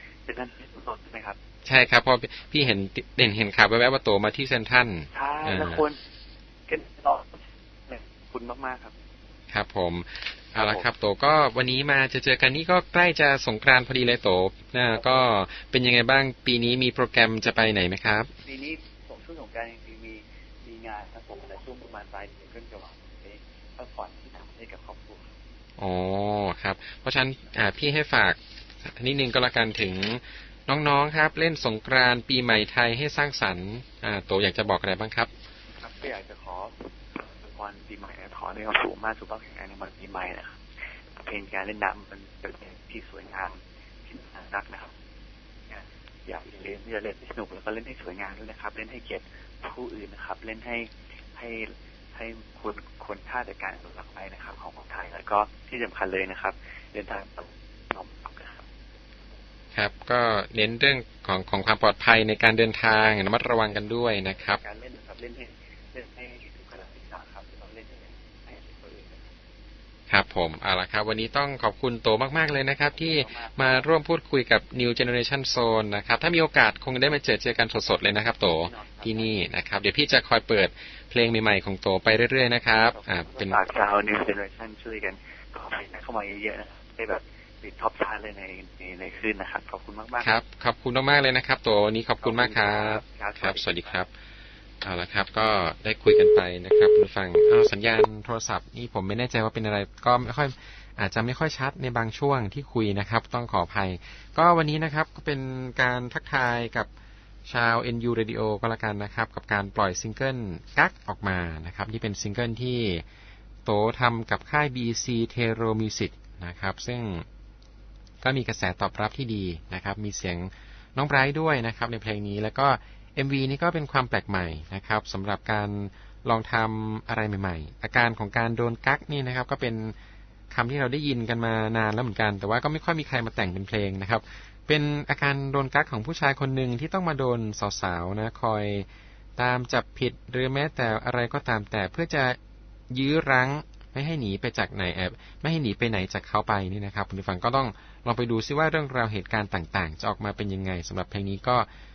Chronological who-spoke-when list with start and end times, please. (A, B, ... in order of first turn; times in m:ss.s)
0:00.2-0:01.4 A
0:01.6-0:05.8 B
0:05.1-0:06.0 A
0:06.7-0:09.0 A
0:09.5-0:18.3 B
0:10.6-0:10.9 A
0:15.0-0:15.3 A
0:18.4-0:25.2 A
0:25.8-0:35.3 B
0:35.8-0:40.6 A
0:41.2-0:44.9 A
0:45.7-0:58.6 A
0:59.8-1:04.6 B
1:04.4-1:09.2 A
1:10.1-1:23.6 B
1:12.9-1:13.9 A
1:18.6-1:19.4 A
1:22.8-1:30.3 A
1:30.2-1:34.1 B
1:32.2-1:34.0 A
1:34.8-1:46.9 B
1:47.5-1:53.0 B
1:53.6-1:57.2 B
1:58.2-2:10.0 B
2:10.5-2:18.9 B
2:19.4-2:22.4 B
2:22.9-2:31.7 B